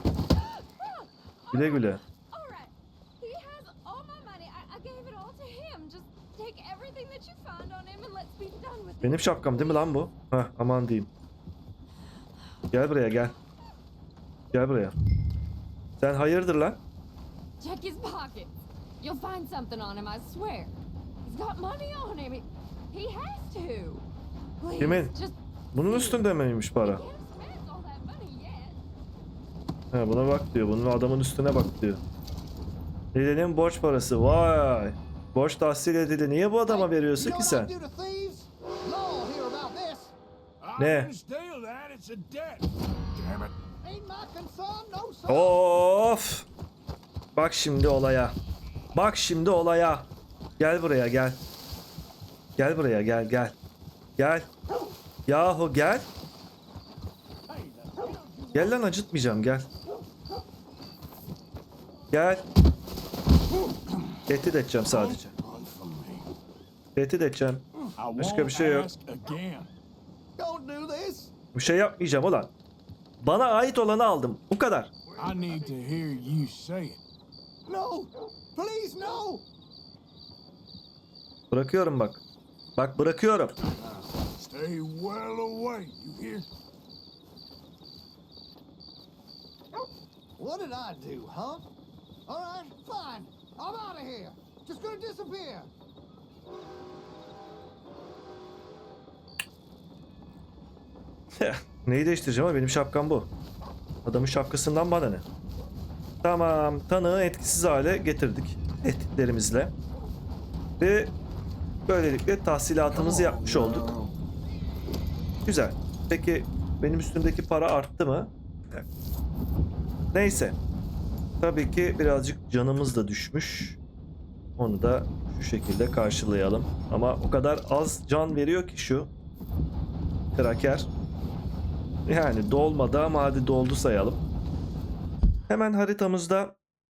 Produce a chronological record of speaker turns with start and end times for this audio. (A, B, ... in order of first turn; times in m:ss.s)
0:00.5-0:09.9 A
0:01.5-0:02.0 B
0:09.0-0:11.1 B
0:12.7-0:13.3 B
0:14.5-0:14.9 B
0:16.0-0:16.8 B
0:17.6-0:24.1 A
0:24.6-0:26.3 A
0:24.8-0:25.1 B
0:25.7-0:27.0 B
0:26.8-0:28.8 A
0:29.9-0:32.0 B
0:33.1-0:37.7 B
0:36.7-0:40.1 C
0:40.6-0:43.5 D
0:40.8-0:41.1 B
0:43.8-0:45.6 C
0:45.3-0:46.4 B
0:47.4-0:48.4 B
0:48.9-0:51.4 B
0:52.6-0:53.6 B
0:54.2-0:54.5 B
0:55.3-0:56.1 B
0:57.5-0:58.6 C
0:58.5-0:59.7 B
1:02.1-1:02.4 B
1:04.3-1:05.3 B
1:04.9-1:06.3 D
1:07.0-1:07.6 B
1:08.0-1:09.7 D
1:08.2-1:08.9 B
1:10.4-1:11.3 C
1:11.5-1:12.5 B
1:13.2-1:14.9 B
1:15.2-1:17.0 D
1:17.7-1:19.4 C
1:21.5-1:22.2 B
1:22.8-1:23.6 B
1:23.7-1:26.5 D
1:30.4-1:31.7 C
1:32.3-1:35.7 C
1:41.4-1:43.3 B
1:44.0-1:45.2 B
1:46.2-1:49.7 B
1:50.8-1:51.1 B
1:51.9-1:53.9 B
1:53.0-1:53.9 D
1:55.4-1:58.9 B
2:00.1-2:00.6 B
2:01.4-2:03.8 B
2:04.6-2:09.1 B
2:10.3-2:10.9 B
2:12.1-2:14.2 B
2:15.5-2:16.6 B